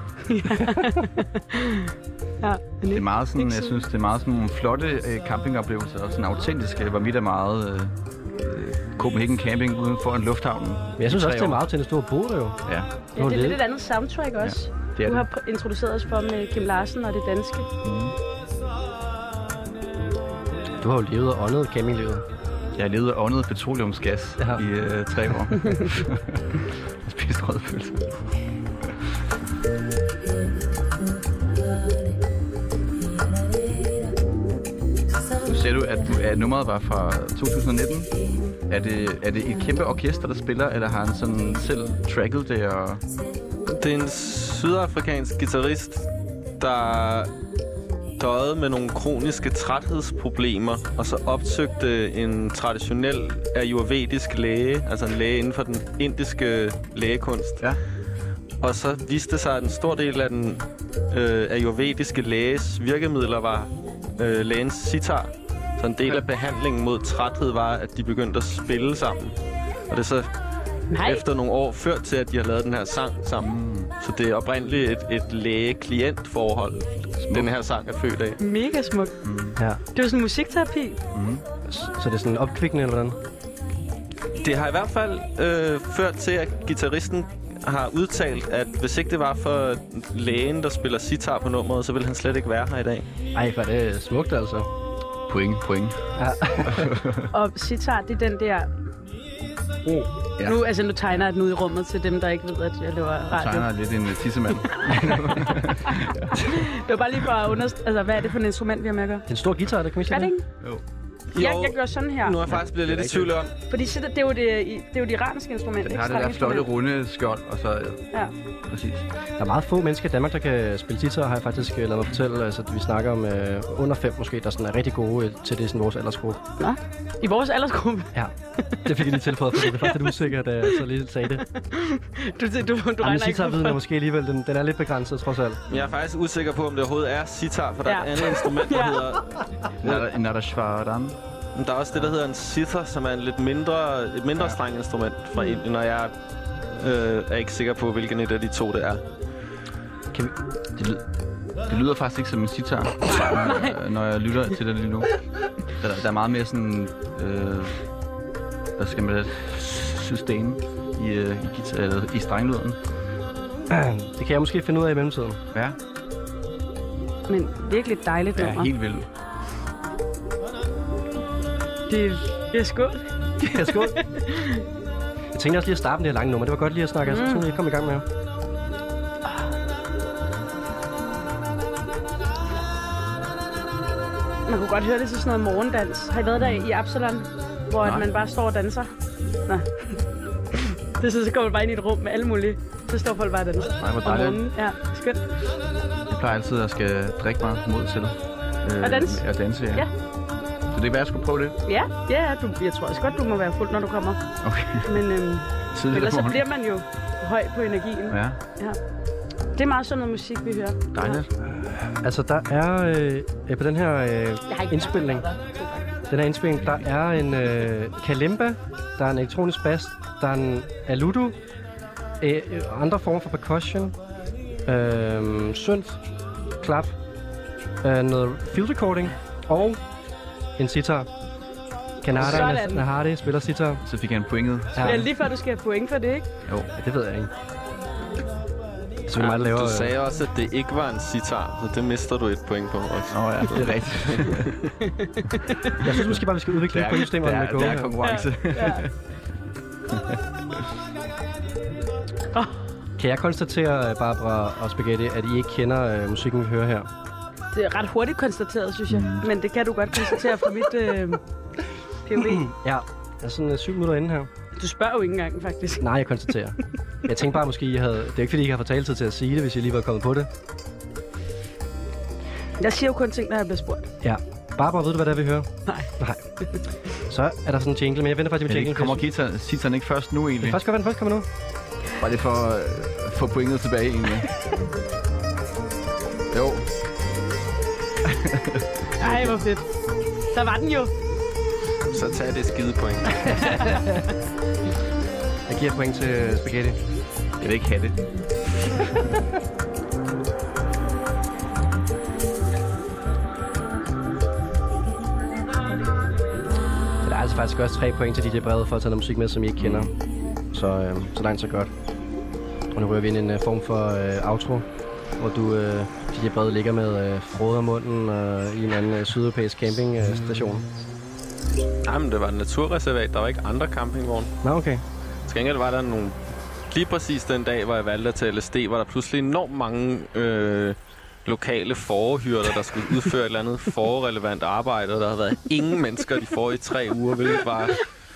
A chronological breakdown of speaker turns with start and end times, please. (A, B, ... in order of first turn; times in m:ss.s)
0:00.3-0:03.8 A
0:02.9-0:11.6 B
0:11.0-0:12.6 C
0:12.6-0:12.9 B
0:13.2-0:17.7 A
0:13.2-0:13.6 C
0:14.4-0:15.3 B
0:17.8-0:18.1 B
0:20.8-0:22.2 C
0:22.8-0:28.2 B
0:35.4-0:38.1 B
0:38.7-0:43.0 B
0:43.6-0:47.3 D
0:48.2-0:57.6 D
0:58.6-1:09.4 D
1:09.9-1:10.3 D
1:10.9-1:11.2 A
1:11.0-1:18.4 D
1:13.4-1:13.9 B
1:17.2-1:17.5 B
1:18.4-1:19.1 A
1:19.2-1:19.6 B
1:19.9-1:21.0 A
1:21.1-1:21.4 B
1:21.7-1:23.2 C
1:24.4-1:33.0 D
1:33.3-1:34.7 C
1:35.3-1:36.0 B
1:36.2-1:37.0 C
1:36.6-1:37.3 B
1:37.3-1:38.7 A
1:40.4-1:43.7 A
1:43.3-1:46.3 B
1:44.8-1:45.7 A
1:46.4-1:49.2 A
1:49.3-1:50.3 C
1:50.1-1:50.4 A
1:51.3-1:53.5 D
1:51.4-1:52.4 A
1:52.8-1:53.2 C
1:53.7-1:56.7 A
1:55.8-1:58.0 B
1:58.6-1:59.0 B
1:59.4-2:06.4 C
2:06.6-2:08.1 A
2:08.6-2:10.7 A
2:08.8-2:11.4 C
2:11.4-2:13.8 A
2:13.0-2:15.6 C
2:15.7-2:20.0 D
2:17.8-2:19.1 A
2:19.8-2:21.2 B
2:21.5-2:26.1 D
2:26.7-2:29.0 D
2:30.7-2:31.0 B
2:31.6-2:35.2 B
2:33.1-2:33.7 A
2:35.8-2:37.8 B
2:38.8-2:42.8 B
2:43.7-2:45.4 C
2:45.5-2:45.8 B
2:47.3-2:48.7 A
2:48.3-2:49.1 B
2:51.9-2:53.0 A
2:53.4-2:54.0 C
2:53.8-2:54.6 A
2:55.3-2:58.0 C
2:57.0-2:57.5 A
2:59.2-2:59.5 A
3:04.5-3:08.9 A
3:06.4-3:06.6 B
3:07.8-3:08.1 B
3:09.4-3:10.0 A
3:11.0-3:15.3 A
3:13.8-3:14.4 B
3:16.1-3:19.9 B
3:18.8-3:19.9 A
3:20.7-3:21.6 B
3:21.6-3:24.2 A
3:24.4-3:25.0 B
3:24.8-3:28.8 A
3:25.7-3:26.4 B
3:28.1-3:28.4 B
3:29.5-3:31.2 A
3:30.9-3:31.3 B
3:31.6-3:35.3 C
3:34.5-3:35.9 A
3:36.1-3:41.4 C
3:42.2-3:44.0 C
3:44.6-3:46.0 C
3:46.6-3:47.0 C
3:47.8-3:49.8 C
3:50.6-3:51.1 C
3:52.0-3:53.8 C
3:52.2-3:52.9 A
3:53.8-3:55.1 B
3:54.7-3:55.0 C
3:54.8-3:56.2 A
3:56.4-3:56.7 B
3:56.8-3:57.3 C
3:59.0-3:59.9 C
3:59.2-4:04.4 D
4:03.1-4:04.5 B
4:05.8-4:08.0 C
4:05.9-4:08.9 B
4:07.6-4:08.8 A
4:09.9-4:10.6 B
4:12.3-4:12.6 A
4:13.0-4:16.9 C
4:17.5-4:21.2 A
4:18.9-4:19.3 B
4:22.0-4:22.5 A
4:22.2-4:24.3 C
4:24.6-4:25.8 A
4:25.8-4:30.3 C
4:32.6-4:33.9 A
4:34.0-4:36.2 C
4:37.0-4:39.0 C
4:38.5-4:40.6 B
4:40.4-4:41.3 C
4:42.0-4:44.3 B
4:46.3-4:46.7 B
4:48.0-4:49.3 B
4:49.0-4:49.6 A
4:50.3-4:50.9 A
4:51.9-4:53.7 D
4:53.2-4:54.0 C
4:55.5-4:56.8 C
4:57.4-4:58.0 B
5:07.0-5:09.9 C
5:09.6-5:09.9 B
5:10.5-5:11.7 C
5:12.7-5:14.6 C
5:15.2-5:20.6 C
5:21.8-5:24.3 D
5:24.4-5:24.8 C
5:25.2-5:37.9 D